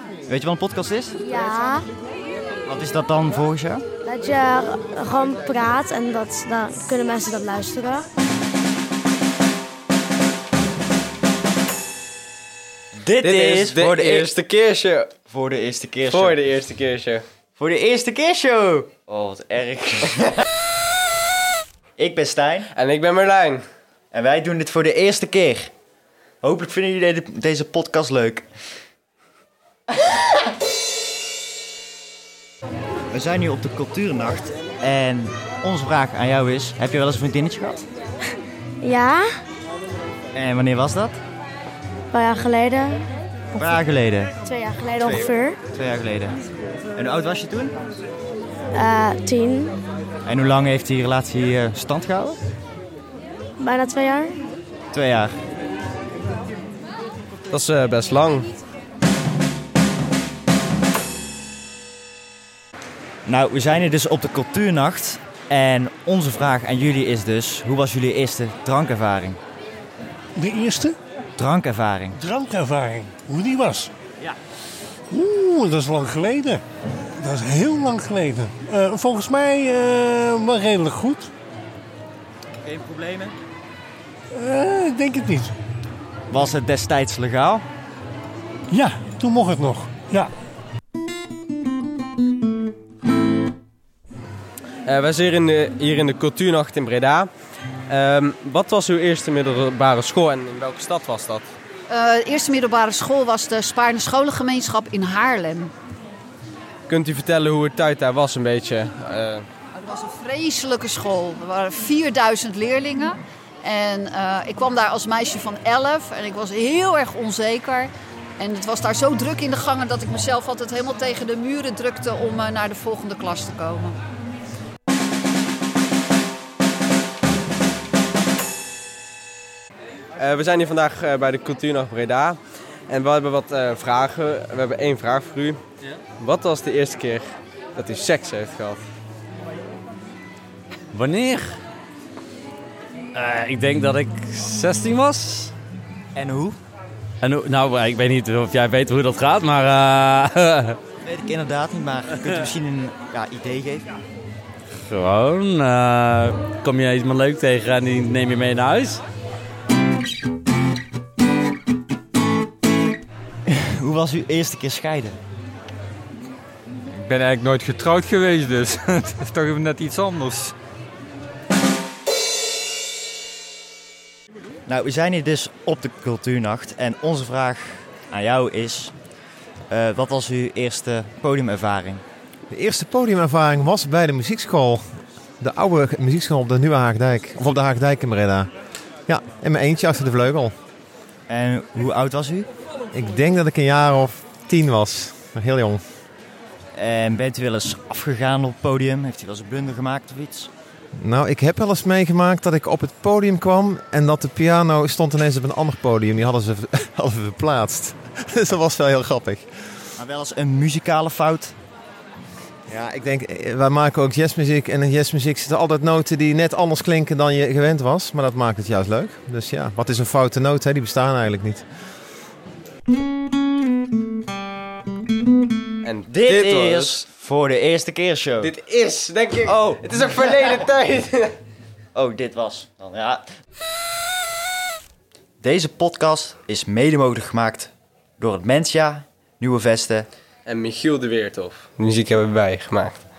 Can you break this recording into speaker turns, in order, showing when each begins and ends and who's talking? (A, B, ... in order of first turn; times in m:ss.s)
0:00.3-0:01.2 A
0:01.2-0:01.9 B
0:02.6-0:03.8 A
0:04.0-0:08.0 B
0:13.0-0:14.3 A
0:13.2-0:15.1 C
0:15.3-0:16.4 A
0:16.1-0:17.2 C
0:17.6-0:20.4 A
0:22.0-0:22.7 A
0:22.7-0:23.6 C
0:24.1-0:25.7 A
0:26.4-0:28.4 A
0:33.1-0:37.8 A
0:38.8-0:39.2 B
0:40.3-0:41.2 A
0:42.1-0:43.0 B
0:43.5-0:44.3 A
0:44.4-0:45.6 B
0:45.0-0:46.4 A
0:47.0-0:47.7 A
0:48.7-0:49.7 B
0:50.2-0:52.4 A
0:53.6-0:54.3 B
0:54.9-0:55.3 A
0:57.5-0:58.5 C
1:03.2-1:09.4 A
1:10.4-1:11.0 D
1:11.4-1:12.2 A
1:12.1-1:13.9 D
1:15.1-1:16.6 D
1:17.2-1:21.3 D
1:22.6-1:23.4 A
1:24.3-1:25.5 D
1:26.3-1:27.6 A
1:28.7-1:30.3 D
1:34.8-1:37.3 C
1:37.9-1:41.5 C
1:41.9-1:45.7 E
1:46.9-1:49.4 C
1:49.7-2:04.0 E
2:10.2-2:12.4 C
2:12.9-2:15.6 C
2:16.2-2:18.8 C
2:20.9-2:21.6 F
2:23.1-2:25.5 F
2:26.1-2:26.6 A
2:27.2-2:30.8 F
2:31.0-2:33.9 A
2:34.8-2:39.0 F
2:43.5-2:45.2 A
2:47.2-2:50.5 G
2:54.7-2:58.9 A
2:59.7-3:02.0 A
3:02.5-3:04.8 H
3:05.4-3:08.5 H
3:09.1-3:10.5 H
3:11.3-3:12.5 A
3:12.9-3:15.8 H
3:16.8-3:20.5 A
3:21.0-3:29.5 H
3:30.0-3:31.5 A
3:32.7-3:41.6 H
3:45.8-3:47.0 C
3:46.1-3:48.5 A
3:48.4-3:51.3 C
3:49.4-3:50.5 A
3:51.9-3:53.2 A
3:55.4-4:00.1 A
4:00.4-4:02.9 C